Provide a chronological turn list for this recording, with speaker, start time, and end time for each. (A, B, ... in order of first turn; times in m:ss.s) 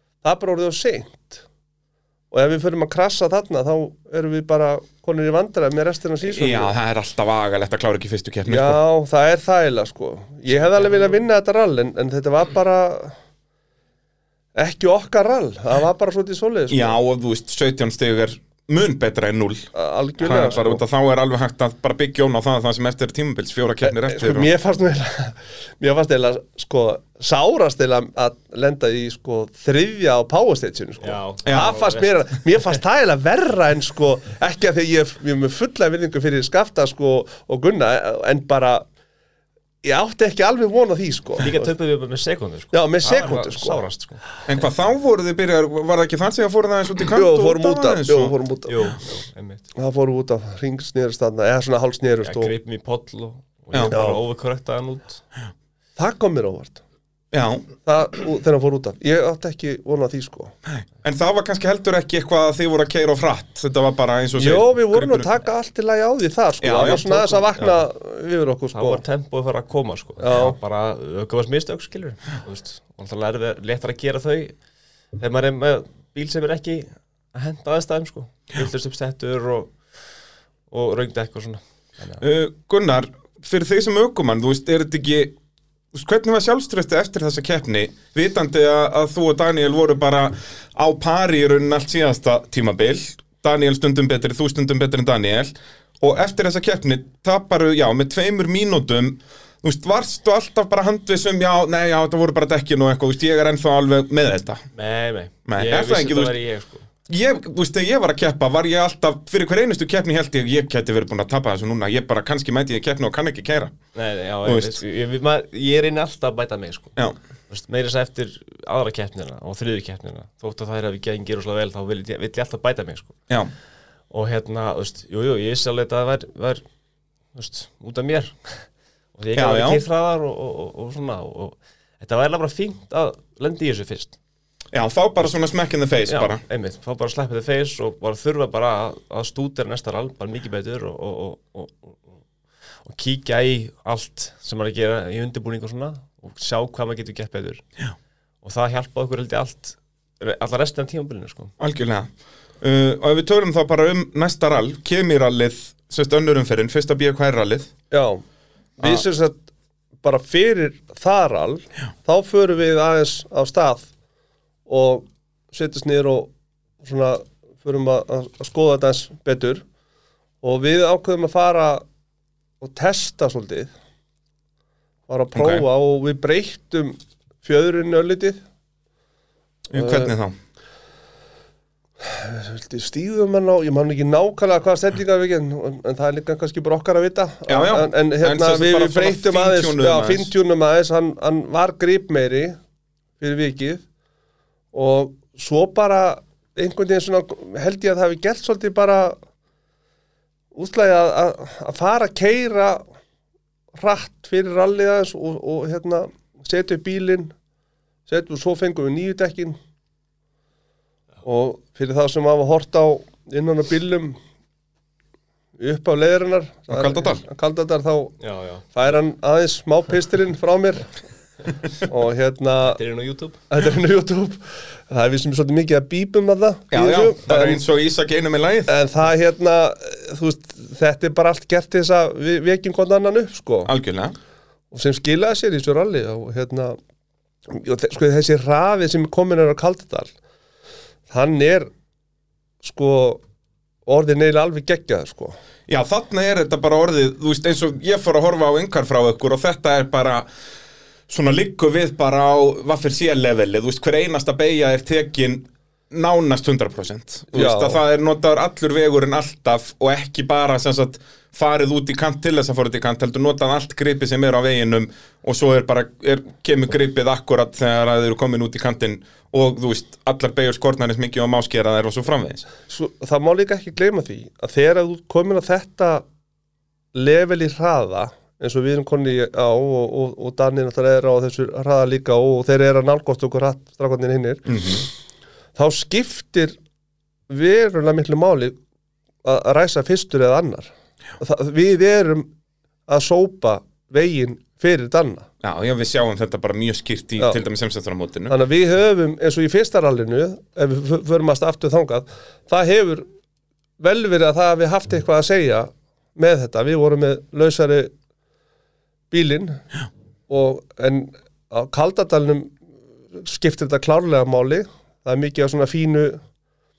0:00.2-0:01.4 A
0:02.3-0:06.7 A
0:06.2-0:08.8 B
0:08.5-0:13.2 A
0:10.8-0:11.1 C
0:14.6-0:17.0 A
0:16.7-0:19.7 B
0:19.8-0:20.8 A
0:20.2-0:24.5 B
0:23.8-0:38.9 A
0:31.0-0:32.3 C
0:31.5-0:31.8 B
0:39.8-0:41.7 A
0:41.4-0:44.2 C
0:42.7-0:43.8 A
0:44.5-0:48.3 B
0:47.1-0:48.8 A
0:48.7-0:49.7 C
0:49.8-0:52.5 A
0:52.2-0:55.2 C
0:53.9-0:54.2 A
0:56.0-0:56.8 A
0:57.3-0:57.7 B
0:57.8-1:00.5 A
1:00.7-1:05.3 B
1:04.4-1:09.0 A
1:06.6-1:07.3 B
1:06.8-1:07.9 C
1:08.7-1:14.6 C
1:10.2-1:10.6 A
1:15.2-1:19.7 C
1:20.7-1:22.2 C
1:22.2-1:25.4 B
1:25.9-1:44.6 B
1:44.7-1:46.9 C
1:45.5-1:46.3 B
1:47.1-1:53.8 B
1:53.9-1:57.0 C
1:54.4-1:54.8 B
1:57.5-2:03.2 C
2:04.1-2:06.6 C
2:07.4-2:08.6 C
2:09.2-2:14.2 C
2:09.3-2:09.8 B
2:14.7-2:16.4 B
2:16.1-2:22.1 C
2:22.8-2:27.6 C
2:28.4-2:31.5 C
2:31.6-2:32.1 B
2:32.6-2:37.7 B
2:37.9-2:38.2 A
2:38.8-2:39.4 A
2:40.0-2:43.9 A
2:44.7-2:46.3 A
2:46.8-2:49.6 A
2:50.4-2:51.8 A
2:52.6-2:53.7 A
2:55.1-2:58.4 A
2:55.4-2:55.7 B
2:59.7-3:00.4 B
2:59.7-3:00.1 A
3:02.0-3:12.6 A
3:07.5-3:10.3 B
3:13.2-3:13.8 A
3:14.7-3:19.2 A
3:20.5-3:22.8 A
3:23.8-3:27.3 A
3:28.1-3:29.6 A
3:31.2-3:34.2 A
3:35.6-3:38.2 A
3:36.7-3:37.2 B
3:38.2-3:38.7 C
3:38.8-3:41.0 A
3:41.8-3:42.8 A
3:42.6-3:43.4 C
3:43.5-3:47.6 A
3:46.7-3:48.7 B
3:48.7-3:53.7 A
3:53.7-3:54.2 B
3:54.7-3:56.8 A
3:57.5-4:00.1 A
4:01.1-4:01.7 A
4:02.6-4:03.2 A
4:03.9-4:05.4 A
4:05.7-4:10.3 B
4:11.1-4:32.5 B
4:17.3-4:17.8 A
4:32.7-4:36.0 A
4:36.9-4:44.8 A
4:44.5-4:44.9 B
4:45.6-4:46.6 A
4:47.3-4:48.6 A
4:49.2-4:52.3 A
4:52.9-4:55.3 A
4:55.4-4:58.4 B
4:58.3-5:03.0 A
5:03.8-5:07.9 A
5:09.1-5:09.6 A
5:10.3-5:12.6 A
5:13.1-5:16.2 A